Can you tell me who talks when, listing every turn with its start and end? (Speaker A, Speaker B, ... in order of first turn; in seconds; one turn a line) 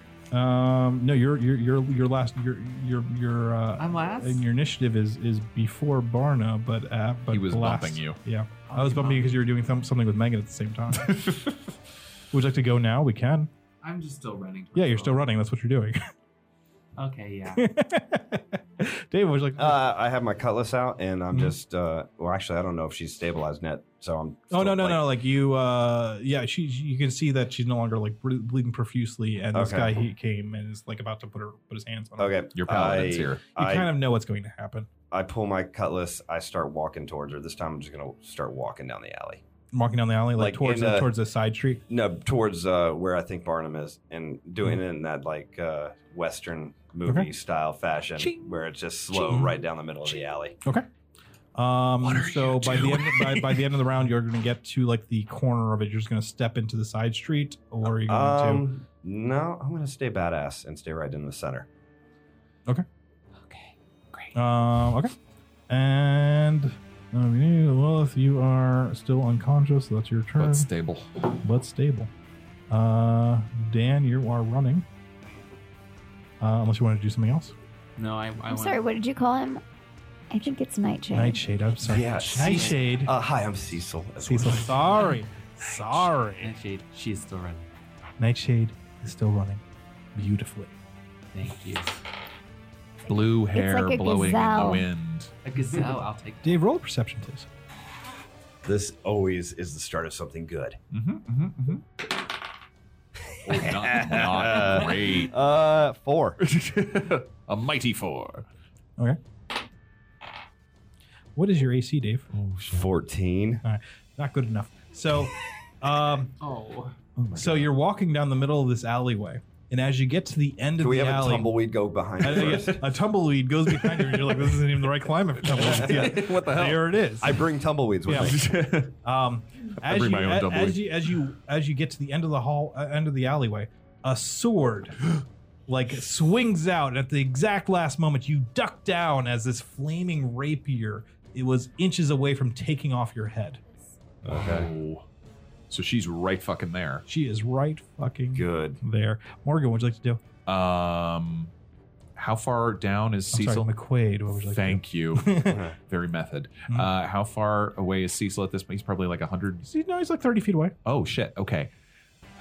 Speaker A: 0.3-11.2
Speaker B: 3.8-4.4
Speaker C: 7.3-8.2
Speaker B: 8.7-9.3
Speaker C: 11.0-11.6
Speaker A: 12.3-13.5
Speaker B: 13.8-15.2
Speaker A: 14.8-16.0
Speaker B: 17.0-17.7
Speaker A: 17.5-19.8
Speaker D: 19.6-25.0
Speaker A: 21.3-21.6
Speaker A: 24.5-32.3
Speaker D: 29.5-29.9
Speaker D: 32.2-33.9
Speaker C: 32.5-33.4
Speaker A: 33.6-34.9
Speaker D: 35.1-39.4
Speaker A: 39.7-41.8
Speaker D: 40.4-41.1
Speaker D: 41.9-50.6
Speaker C: 48.2-49.5
Speaker A: 49.2-49.5
Speaker A: 51.6-58.6
Speaker C: 52.0-53.7
Speaker D: 58.1-61.7
Speaker A: 64.3-65.1
Speaker A: 65.7-70.7
Speaker C: 70.4-71.2
Speaker A: 71.4-72.1
Speaker A: 72.7-74.9
Speaker A: 76.4-77.5
Speaker B: 78.0-78.8
Speaker E: 78.5-79.6
Speaker E: 80.3-81.4
Speaker A: 81.1-83.1
Speaker D: 81.8-85.0
Speaker B: 82.3-82.8
Speaker A: 84.2-86.5
Speaker B: 85.0-87.7
Speaker A: 88.2-89.6
Speaker A: 90.2-90.7
Speaker B: 91.3-92.0
Speaker C: 93.1-95.3
Speaker E: 93.5-94.8
Speaker B: 95.5-96.6
Speaker A: 96.4-97.5
Speaker D: 98.6-100.8
Speaker C: 100.9-101.8
Speaker D: 103.3-106.4
Speaker C: 103.4-105.3
Speaker C: 106.4-108.5
Speaker A: 111.4-112.3
Speaker C: 112.3-112.9
Speaker D: 112.7-113.6
Speaker A: 113.6-116.3
Speaker B: 116.4-117.0
Speaker C: 117.3-117.7
Speaker A: 117.3-121.5
Speaker D: 120.8-122.9
Speaker A: 122.2-127.4
Speaker C: 123.8-124.4
Speaker C: 125.4-127.4
Speaker D: 125.6-126.3
Speaker D: 127.2-128.8
Speaker A: 128.1-128.4
Speaker C: 128.1-128.9
Speaker A: 129.0-135.0
Speaker C: 129.8-131.0
Speaker A: 135.7-143.6
Speaker D: 144.2-144.7
Speaker C: 144.2-145.1
Speaker C: 145.7-147.1
Speaker A: 147.1-150.2
Speaker D: 148.3-148.8
Speaker C: 150.5-151.5
Speaker C: 152.2-153.7
Speaker A: 153.3-155.6
Speaker C: 154.3-159.7
Speaker D: 155.5-155.7
Speaker A: 159.7-160.8
Speaker C: 160.8-161.7